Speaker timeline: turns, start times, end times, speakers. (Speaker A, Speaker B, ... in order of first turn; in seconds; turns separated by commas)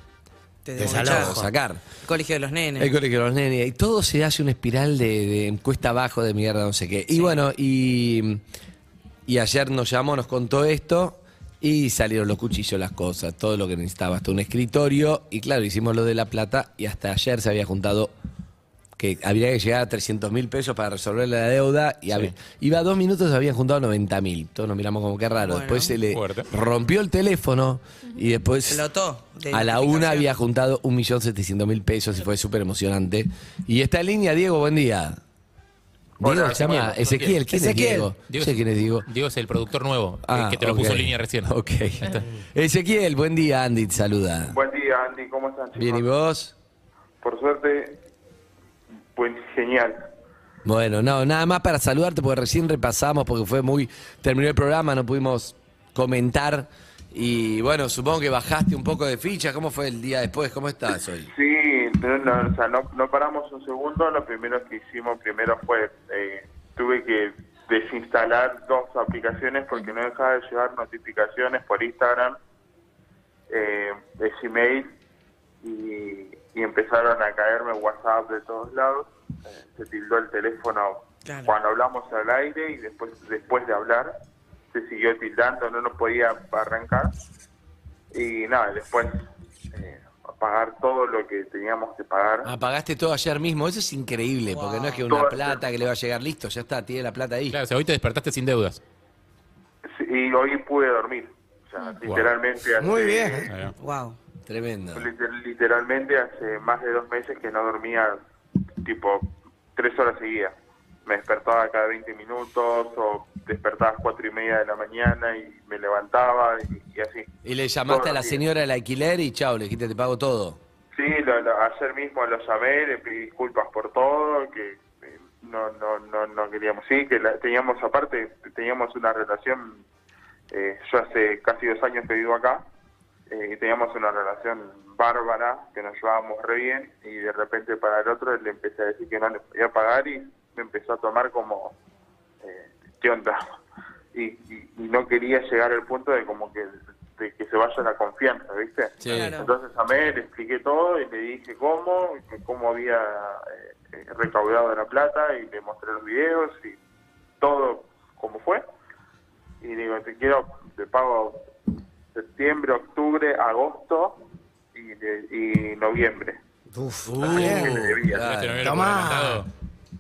Speaker A: 0.7-1.4, Speaker B: 0.8-1.5, Speaker C: 0.8-1.8, Speaker A: 2.0-2.9, Speaker C: 2.8-8.4, Speaker C: 9.3-18.1, Speaker C: 19.0-28.9, Speaker A: 25.4-25.9, Speaker D: 26.1-26.5, Speaker A: 28.7-30.3, Speaker C: 29.5-35.2, Speaker E: 36.2-36.9, Speaker C: 36.2-39.1, Speaker D: 36.5-42.3, Speaker B: 37.5-38.1, Speaker C: 40.2-44.6, Speaker E: 44.5-46.1, Speaker C: 45.8-46.5, Speaker E: 47.2-48.0, Speaker E: 49.1-50.0, Speaker C: 50.6-61.3, Speaker E: 61.3-72.4, Speaker E: 73.5-74.9, Speaker E: 75.6-84.1, Speaker A: 81.2-81.5, Speaker E: 84.7-87.1, Speaker E: 88.1-89.2, Speaker E: 89.7-92.5, Speaker C: 92.5-97.6, Speaker A: 94.5-95.0, Speaker E: 95.0-95.6, Speaker D: 97.5-98.8, Speaker E: 99.9-103.5, Speaker D: 102.1-102.3, Speaker B: 102.8-103.5, Speaker D: 103.5-103.7, Speaker A: 103.8-104.2, Speaker C: 104.5-105.1, Speaker E: 105.0-108.2, Speaker E: 108.8-110.5, Speaker E: 111.1-117.3, Speaker C: 117.4-120.6, Speaker E: 117.9-118.4, Speaker E: 120.9-129.8, Speaker E: 130.5-132.7, Speaker E: 133.3-141.8, Speaker E: 142.4-143.4, Speaker E: 144.1-156.8, Speaker C: 149.0-149.3, Speaker A: 149.1-149.5, Speaker E: 157.4-158.6, Speaker E: 159.6-161.4, Speaker E: 162.1-166.4, Speaker B: 166.7-167.8, Speaker C: 167.0-168.8, Speaker E: 167.2-168.2, Speaker D: 168.1-169.5, Speaker B: 168.6-169.4